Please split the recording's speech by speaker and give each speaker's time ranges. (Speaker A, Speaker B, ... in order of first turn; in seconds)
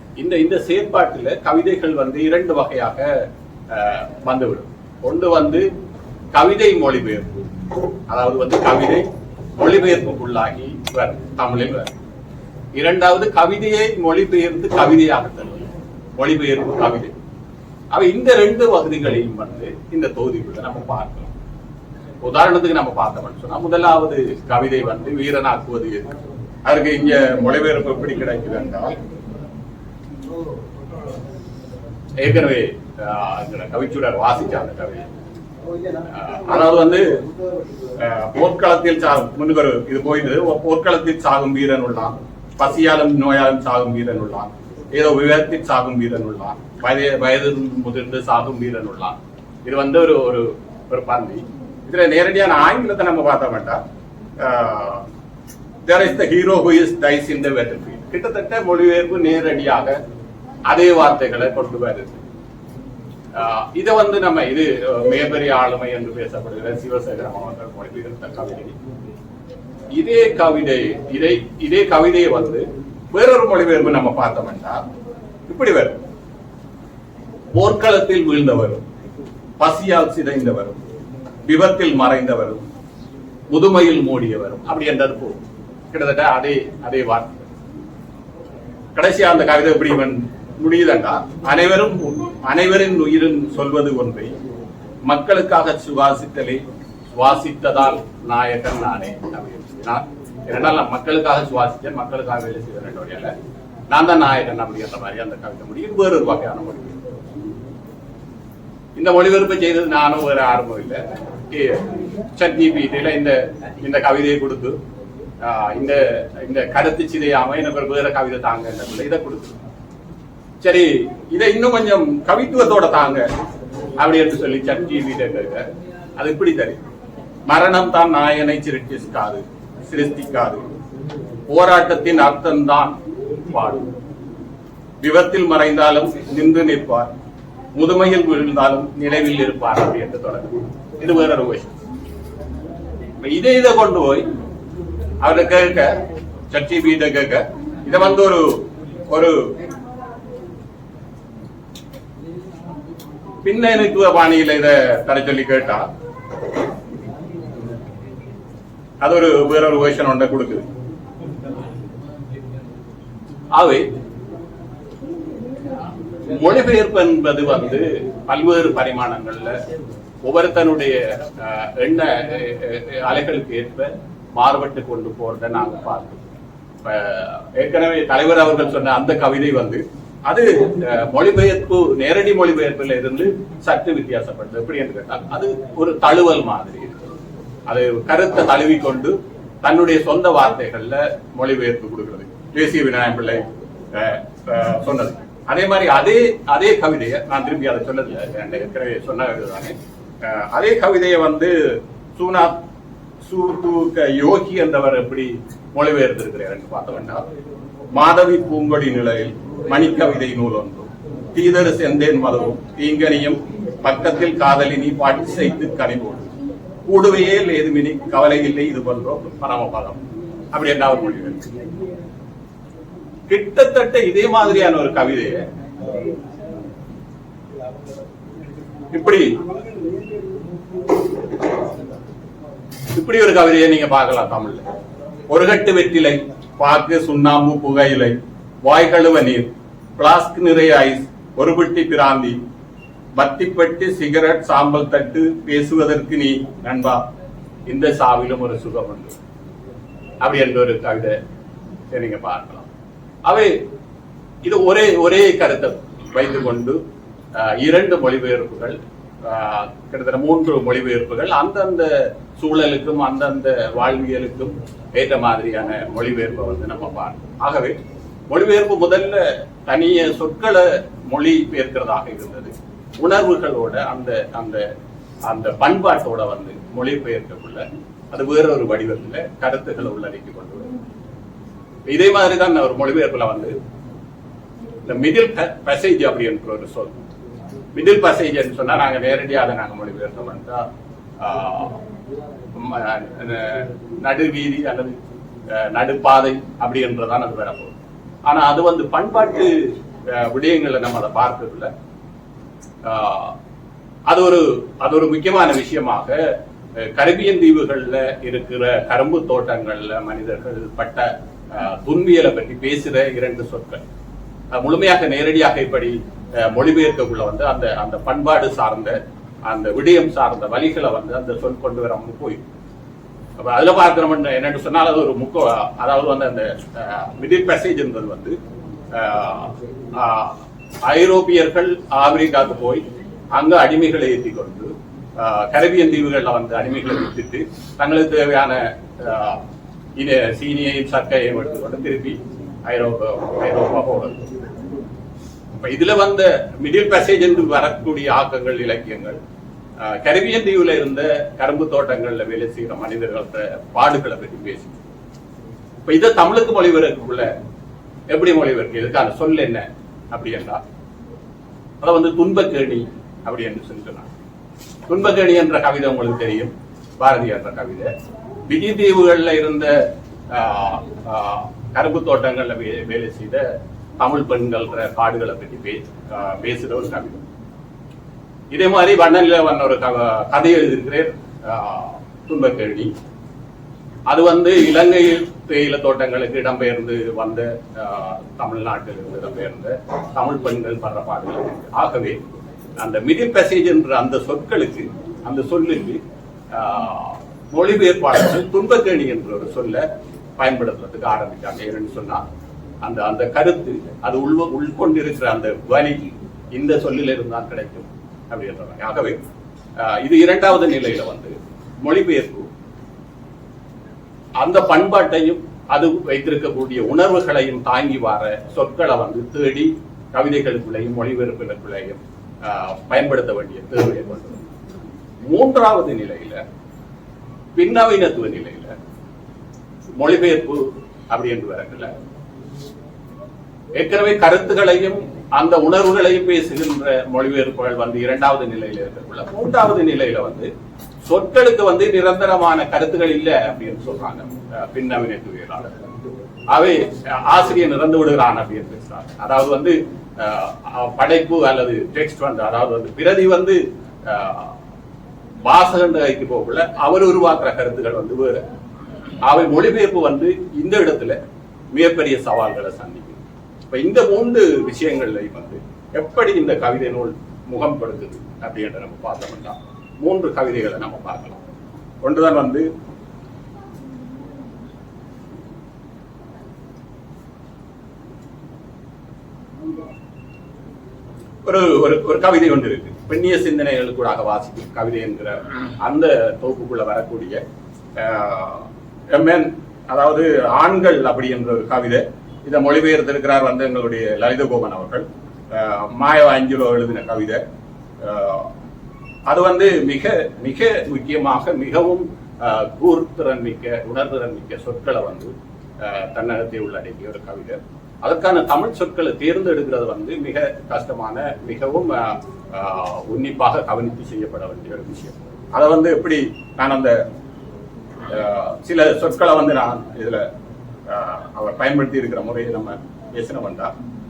Speaker A: 0.2-5.7, 6.3-7.3, 8.1-9.1, 9.6-11.9, 12.8-17.1, 17.9-21.3, 22.2-26.1, 26.6-28.9, 32.2-35.1, 36.1-37.2, 38.0-53.8, 54.4-55.0, 55.8-60.0, 60.7-62.2, 63.3-68.8, 69.9-74.8, 75.5-76.0, 77.5-78.8, 79.6-80.8, 81.4-82.6, 83.5-85.4, 85.9-87.3, 88.9-94.3, 95.0-103.3, 103.9-107.0, 109.0-114.8, 115.4-119.6, 120.6-123.2, 124.0-125.7, 126.2-126.8, 127.5-130.6, 131.5-133.9, 135.0-137.1, 137.7-141.8, 143.2-144.2, 145.2-146.0, 146.5-149.5, 153.4-155.8, 159.0-160.6, 163.5-163.9, 166.3-169.6, 170.2-187.0, 187.7-202.6, 203.2-207.2, 207.9-216.3, 216.9-220.0, 220.5-221.5, 223.3-225.4, 228.9-229.3, 232.9-234.7, 235.3-242.4, 243.1-247.0, 247.7-249.1, 250.2-251.2, 251.9-252.7, 253.2-253.6, 254.4-256.8, 257.4-267.8, 268.3-274.6, 275.2-280.7, 281.9-283.6, 284.8-286.9, 287.7-290.6, 291.2-291.8, 292.5-294.9, 295.5-297.7, 298.3-299.5, 300.1-301.7, 302.8-303.4, 304.1-306.2, 306.8-313.8, 314.5-322.4, 323.4-328.4, 328.9-339.4, 340.0-344.2, 345.5-349.2, 349.8-354.7, 355.9-357.3, 358.1-360.6, 361.8-364.1, 364.9-367.9, 368.5-373.4, 374.0-377.2, 378.5-382.9, 384.1-392.2, 392.8-396.0, 396.5-399.8, 400.4-402.2, 402.8-409.2, 409.8-412.5, 414.4-424.4, 425.2-426.4, 427.6-428.7, 430.0-431.9, 433.8-440.5, 441.0-445.8, 446.5-454.5, 455.4-458.4, 459.2-461.2, 461.7-471.4, 472.0-472.7, 481.4-487.4, 487.9-497.4, 498.0-498.5, 499.3-517.0, 518.1-520.2, 520.9-523.7